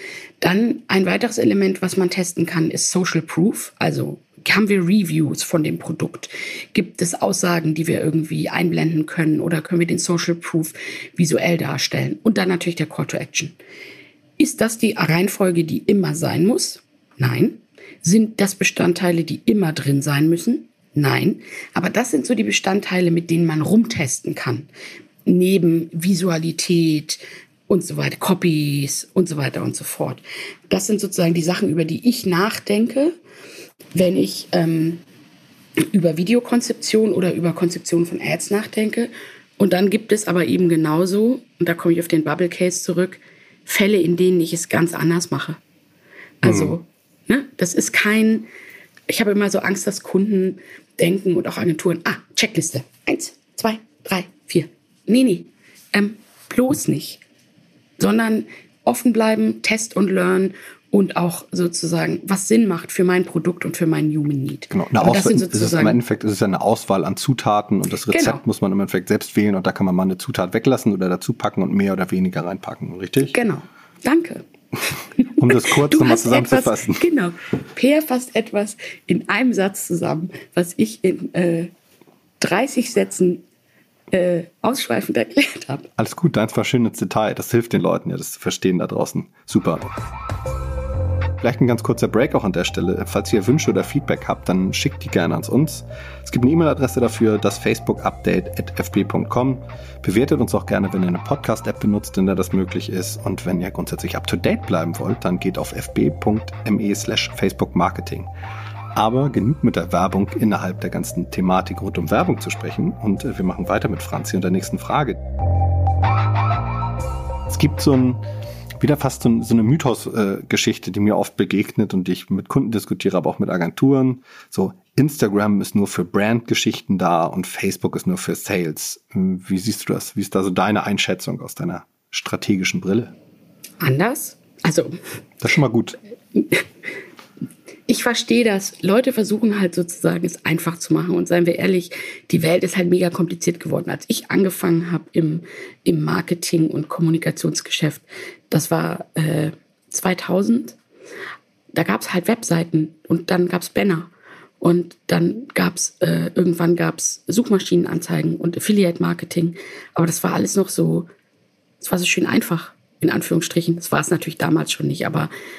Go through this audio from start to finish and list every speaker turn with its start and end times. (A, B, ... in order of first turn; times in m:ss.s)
0:00.4-0:13.6 A
0:14.4-0:24.7 A
0:25.3-0:33.2 A
0:33.9-0:35.0 A
0:35.9-0:45.6 A
0:46.4-0:48.5 A
0:46.4-0:46.7 B
0:49.1-0:57.2 A
0:58.0-1:06.0 A
1:04.7-1:13.3 B
1:08.1-1:08.4 A
1:13.3-1:14.4 A
1:15.2-1:21.7 A
1:15.4-1:17.1 B
1:22.4-1:23.4 A
1:24.1-1:25.9 A
1:26.0-1:29.9 B
1:31.4-1:48.3 B
1:49.0-1:55.2 B
1:57.5-1:58.2 B
1:58.8-2:13.1 B
2:13.8-2:15.0 A
2:15.4-2:16.0 B
2:16.4-2:16.6 A
2:17.9-2:30.8 A
2:31.7-2:41.1 A
2:41.8-2:45.3 A